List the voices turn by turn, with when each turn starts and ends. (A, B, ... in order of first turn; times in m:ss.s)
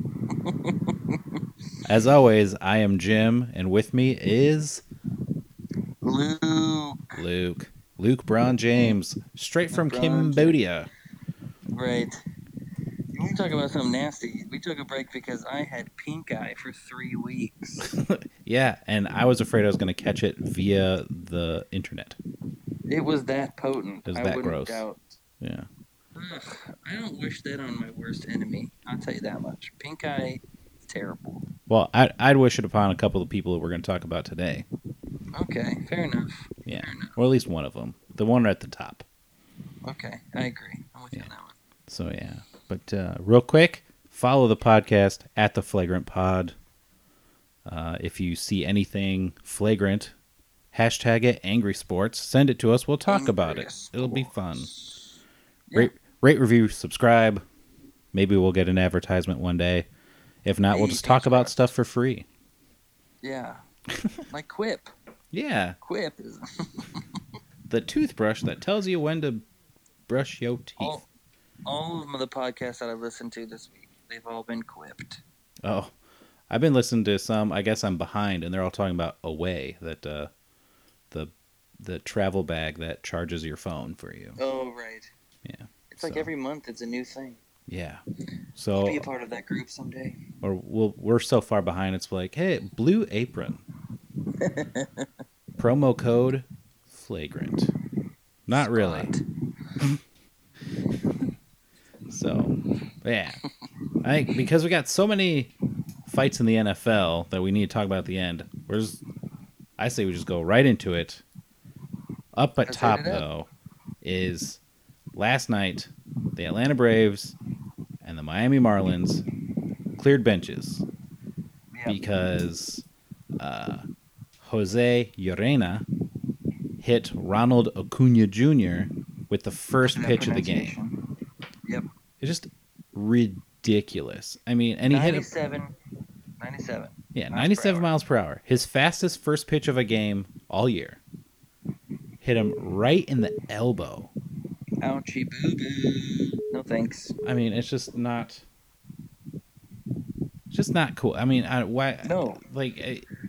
0:00.3-0:01.4 A
0:01.8-0:04.8 B
0:06.0-0:07.2 A
0:07.1-0:10.9 B
0:09.7-0:10.6 A
0:11.7-0:12.2 A
0:13.1-0:17.9 A
0:17.8-0:22.2 B
0:22.9-0:25.2 A
0:24.1-0:24.8 B
0:25.4-0:25.7 B
0:26.1-0:31.5 A
0:31.7-0:34.6 B
0:35.3-0:37.2 A
0:36.6-0:39.0 B
0:39.8-0:41.6 A
0:41.9-0:46.5 B
0:47.6-0:50.1 B
0:50.7-0:54.7 B
0:53.1-0:55.0 A
0:55.7-0:57.4 B
0:58.1-0:59.9 B
1:00.4-1:02.3 B
1:00.7-1:01.7 A
1:03.2-1:03.6 A
1:03.9-1:04.2 B
1:04.3-1:04.9 A
1:05.3-1:05.8 B
1:05.8-1:07.0 A
1:07.7-1:09.4 B
1:10.1-1:11.0 B
1:10.8-1:11.0 A
1:11.6-1:15.2 A
1:15.6-1:15.9 B
1:16.5-1:20.3 B
1:21.1-1:24.4 B
1:24.4-1:25.1 A
1:25.4-1:26.3 B
1:25.9-1:27.4 A
1:27.7-1:28.0 B
1:28.6-1:29.0 B
1:28.8-1:30.2 A
1:30.4-1:33.6 B
1:34.4-1:35.1 A
1:35.6-1:37.7 B
1:38.5-1:39.1 B
1:38.5-1:39.2 A
1:42.1-1:43.4 B
1:44.0-1:45.5 B
1:46.1-1:49.0 B
1:49.8-1:51.2 B
1:52.3-1:53.5 B
1:52.6-1:53.2 A
1:54.0-1:54.6 B
1:55.2-1:57.4 B
1:58.0-1:59.2 B
2:00.0-2:00.8 B
2:01.7-2:02.0 A
2:01.9-2:02.8 B
2:03.4-2:03.8 B
2:04.4-2:05.8 B
2:06.8-2:10.8 B
2:09.8-2:11.0 A
2:12.2-2:15.3 B
2:14.8-2:15.7 A
2:16.4-2:17.9 A
2:17.1-2:21.0 B
2:22.2-2:24.1 B
2:24.8-2:27.1 A
2:27.2-2:28.4 B
2:30.5-2:33.0 B
2:32.0-2:32.4 A